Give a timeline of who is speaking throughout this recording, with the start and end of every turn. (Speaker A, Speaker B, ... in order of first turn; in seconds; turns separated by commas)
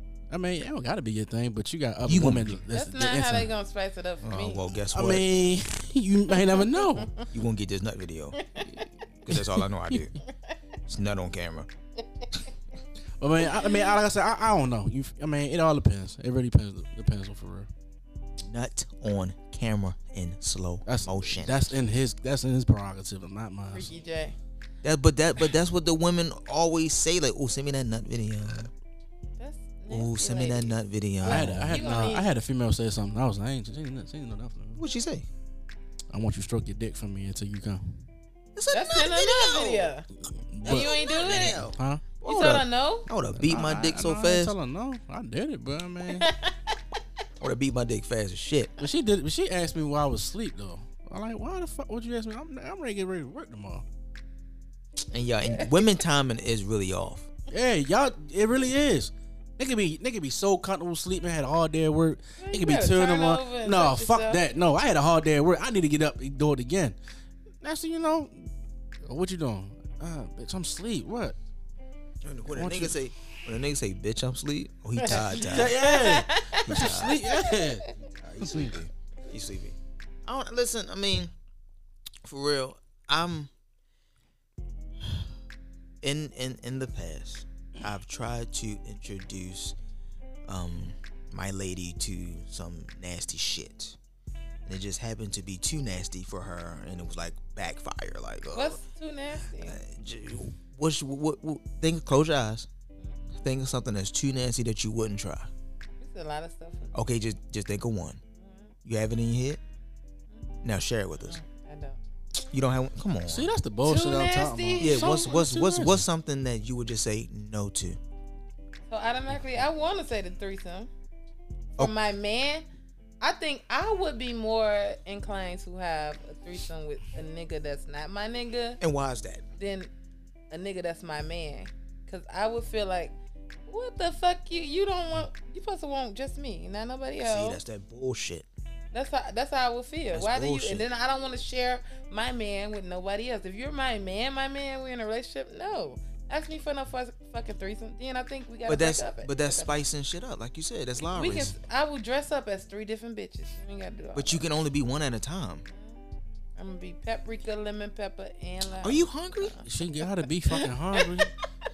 Speaker A: 0.3-3.5, Speaker B: 2.1-2.6, Speaker C: 2.7-4.6, Speaker B: 4.2-5.2, Speaker A: 4.9-7.1, Speaker C: 6.3-7.3, Speaker B: 7.3-8.4, Speaker C: 8.4-8.8, Speaker A: 8.7-9.4, Speaker B: 9.2-10.2, Speaker B: 10.9-11.7, Speaker A: 13.2-17.7, Speaker C: 13.5-13.9, Speaker B: 18.5-21.7, Speaker A: 20.9-23.9, Speaker C: 23.7-24.4, Speaker B: 24.8-28.7, Speaker C: 29.4-32.3, Speaker B: 29.9-32.1, Speaker A: 31.2-34.8, Speaker B: 34.8-35.3, Speaker A: 36.1-38.0, Speaker B: 38.6-39.9, Speaker C: 38.7-40.1, Speaker A: 40.2-42.0, Speaker B: 40.6-44.5, Speaker C: 40.6-41.7, Speaker C: 42.3-43.1, Speaker A: 43.4-46.3, Speaker C: 46.1-46.8, Speaker B: 47.4-48.7, Speaker A: 48.8-53.8, Speaker B: 55.1-57.3, Speaker C: 55.5-55.8, Speaker A: 57.5-67.0, Speaker C: 62.4-64.4, Speaker A: 67.6-68.5, Speaker A: 69.0-71.4, Speaker B: 72.2-75.8, Speaker A: 72.5-73.0, Speaker C: 75.0-77.7, Speaker A: 75.1-77.9, Speaker B: 76.6-77.2, Speaker B: 78.0-81.3, Speaker A: 78.4-78.8, Speaker B: 82.2-83.5, Speaker B: 86.0-89.8, Speaker B: 90.5-94.0, Speaker B: 94.7-98.8, Speaker C: 98.5-99.8, Speaker B: 99.7-102.7, Speaker B: 103.4-105.5, Speaker C: 106.0-107.0, Speaker B: 106.9-108.2, Speaker C: 108.4-108.7, Speaker B: 108.8-109.6, Speaker C: 110.3-110.7, Speaker B: 110.6-111.4, Speaker C: 111.2-112.0, Speaker B: 112.5-113.5, Speaker A: 113.3-116.0, Speaker C: 113.8-115.3, Speaker B: 114.8-118.0, Speaker C: 118.9-120.9, Speaker C: 121.8-122.7, Speaker C: 123.2-128.8, Speaker B: 128.8-129.4, Speaker C: 129.6-129.9, Speaker C: 130.5-133.2, Speaker C: 133.7-137.6, Speaker B: 137.2-138.5, Speaker C: 138.9-149.8, Speaker B: 140.1-140.8, Speaker B: 148.7-151.6, Speaker C: 151.1-154.4, Speaker B: 154.2-155.6, Speaker C: 155.7-156.0, Speaker C: 156.6-159.7, Speaker B: 158.8-159.6, Speaker A: 159.6-161.3, Speaker C: 160.5-161.3